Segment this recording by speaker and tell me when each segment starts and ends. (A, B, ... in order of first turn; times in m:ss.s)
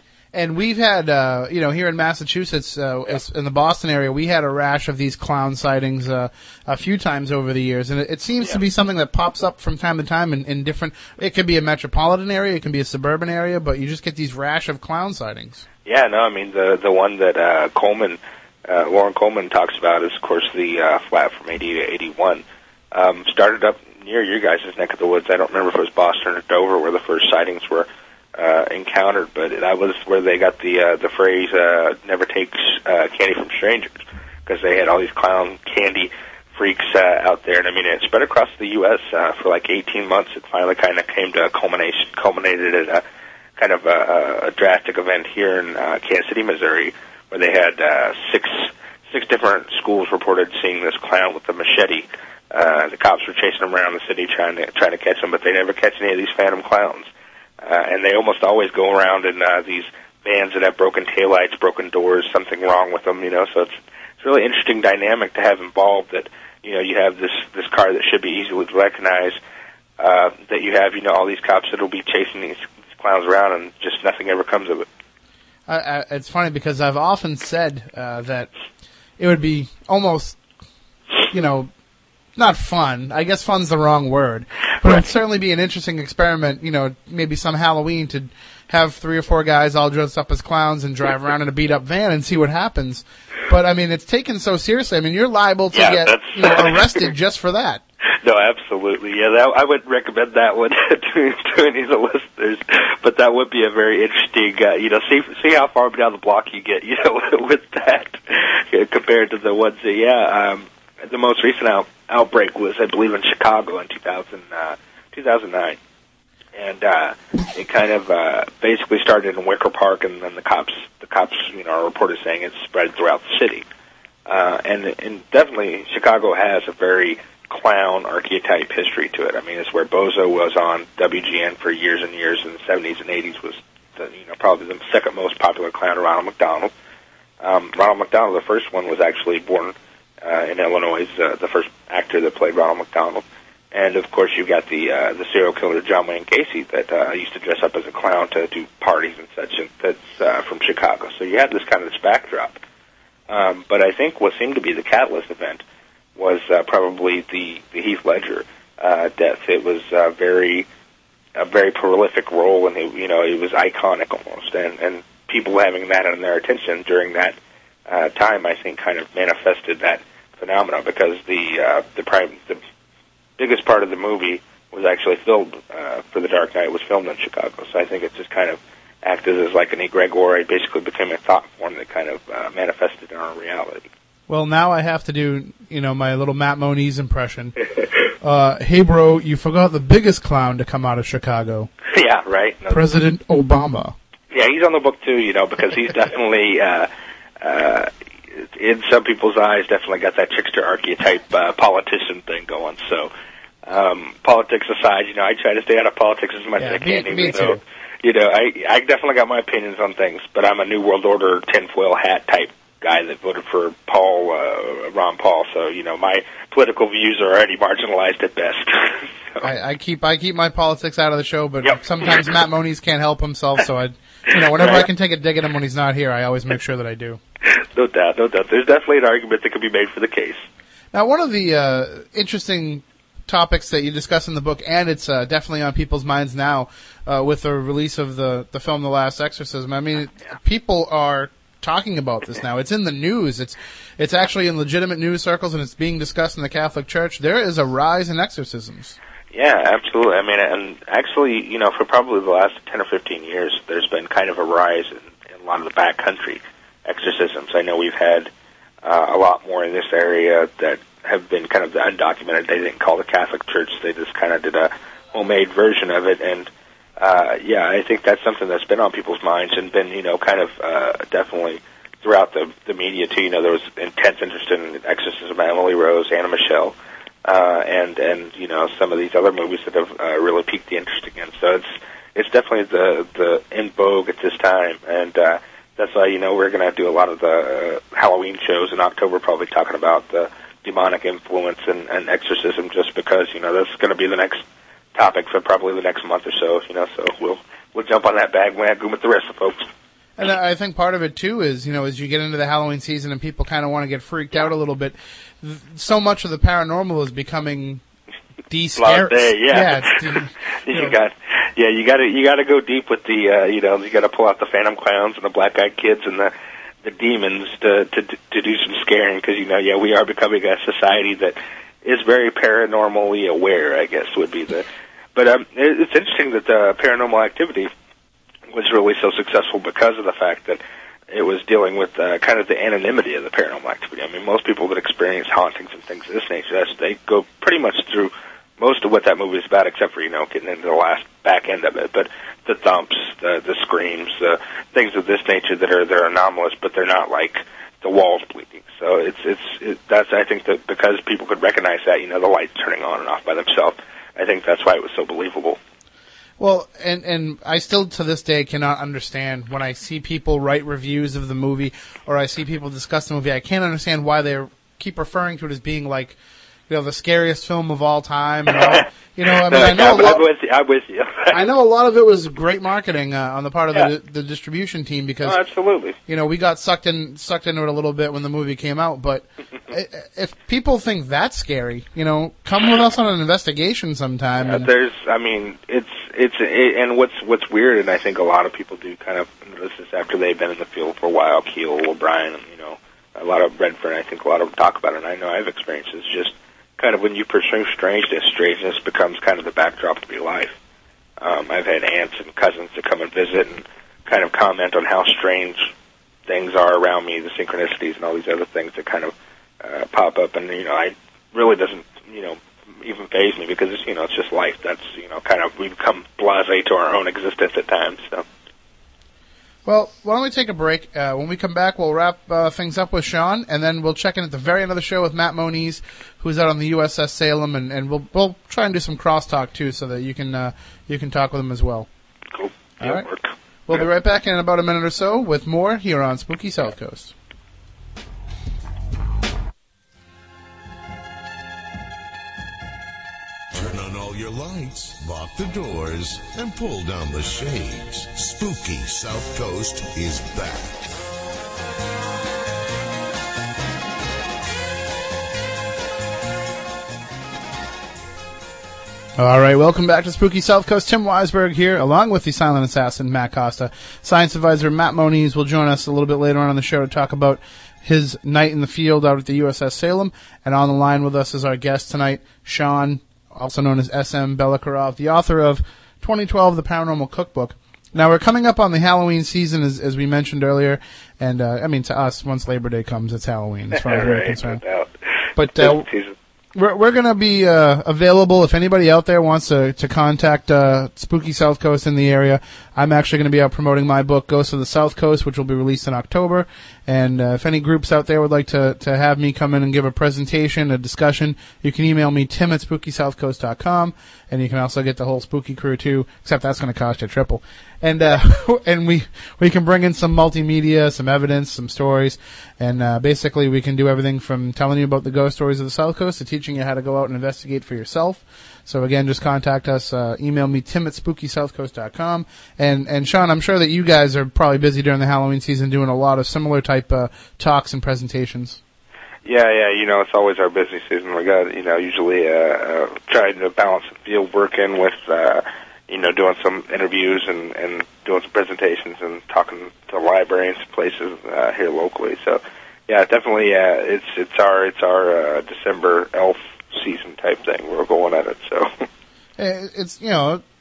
0:00.3-0:15.6 A
0:15.9-0:43.0 B
0:43.6-0:57.1 B
0:57.6-1:09.4 B
1:10.0-1:14.9 B
1:15.7-1:18.5 A
1:19.2-1:20.4 A
1:21.3-1:21.7 A
1:22.4-1:37.8 A
1:35.7-1:37.1 B
1:38.2-1:55.8 B
1:56.6-2:03.7 B
2:04.3-2:16.7 B
2:17.4-2:32.6 B
2:33.3-2:35.6 B
2:36.2-2:40.7 B
2:41.4-2:52.6 B
2:53.4-3:03.9 B
3:04.3-3:07.6 A
3:08.2-3:11.7 A
3:11.9-3:12.8 B
3:12.7-3:14.0 A
3:14.3-3:16.9 B
3:17.4-3:23.1 B
3:23.7-3:39.5 B
3:26.6-3:27.6 A
3:39.4-3:47.2 A
3:44.6-3:44.9 B
3:47.5-3:50.5 B
3:50.9-4:09.0 A
4:09.3-4:18.3 B
4:18.8-4:54.4 B
4:55.0-4:59.7 B
5:00.2-5:07.8 A
5:08.5-5:11.0 A
5:08.8-5:16.3 B
5:16.8-5:27.7 B
5:28.5-5:55.6 B
5:56.4-6:06.2 A
6:06.7-6:10.3 A
6:09.4-6:11.4 B
6:11.3-6:15.4 A
6:15.2-6:16.0 B
6:16.1-6:24.7 A
6:24.4-6:40.6 B
6:41.2-6:45.7 B
6:46.3-6:58.2 B
6:59.6-7:11.9 A
7:12.3-7:13.3 B
7:12.8-7:13.1 A
7:13.7-7:17.1 A
7:23.5-7:30.9 C
7:39.2-8:04.6 A
8:03.8-8:06.1 B
8:05.4-8:05.9 A
8:06.6-8:48.6 A
8:49.2-9:08.9 B
9:09.4-9:10.4 A